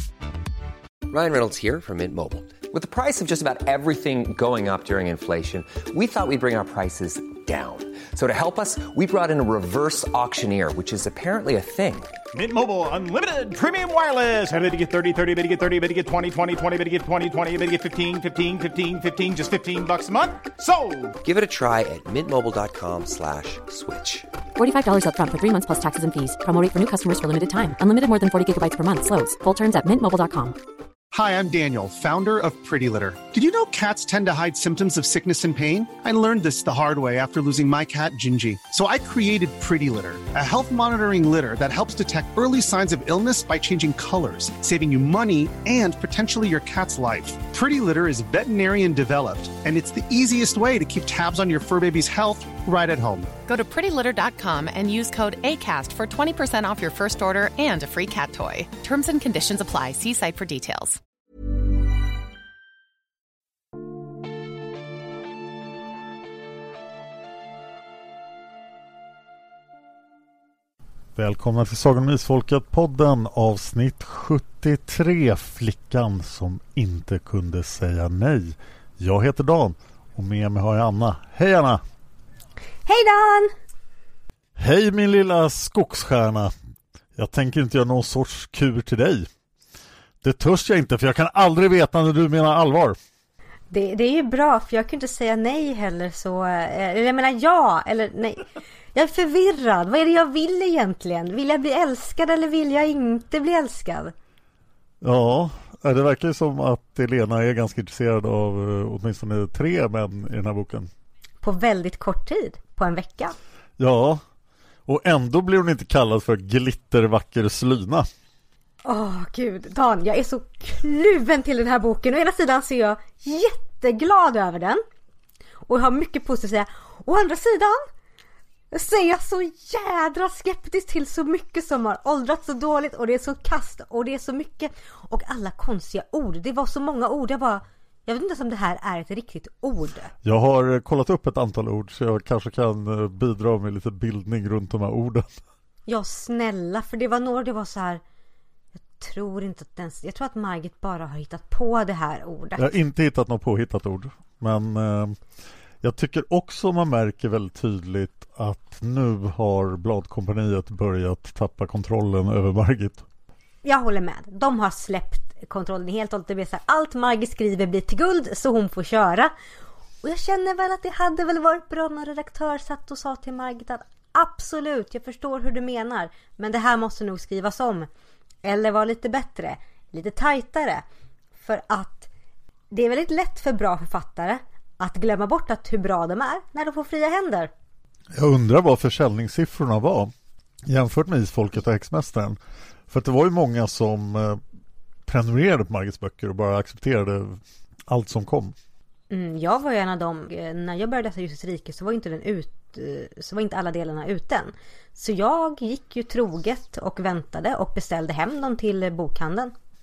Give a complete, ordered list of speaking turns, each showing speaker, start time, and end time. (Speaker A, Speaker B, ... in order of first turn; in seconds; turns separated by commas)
Speaker A: 1.1-12.2, Speaker B: 12.3-21.1, Speaker A: 21.2-24.3, Speaker C: 24.6-30.6, Speaker D: 31.1-53.3, Speaker E: 53.5-61.0, Speaker F: 71.2-81.8, Speaker G: 82.8-83.5, Speaker F: 84.5-86.5, Speaker F: 87.2-89.3, Speaker F: 90.2-93.0, Speaker G: 93.7-104.1, Speaker F: 105.0-110.9, Speaker G: 111.4-113.3, Speaker F: 113.8-114.2, Speaker F: 114.8-118.1, Speaker G: 118.8-124.8, Speaker G: 125.7-127.9, Speaker G: 128.7-140.1, Speaker F: 140.2-145.3, Speaker G: 145.9-148.0, Speaker G: 148.9-152.7, Speaker F: 152.6-155.2, Speaker F: 155.8-163.0, Speaker G: 163.6-169.3, Speaker G: 170.0-177.9, Speaker G: 178.4-180.8, Speaker G: 181.4-182.1, Speaker G: 182.7-187.5, Speaker F: 188.1-190.1, Speaker F: 190.7-192.4, Speaker F: 192.9-194.4, Speaker F: 195.1-198.5, Speaker G: 199.1-209.5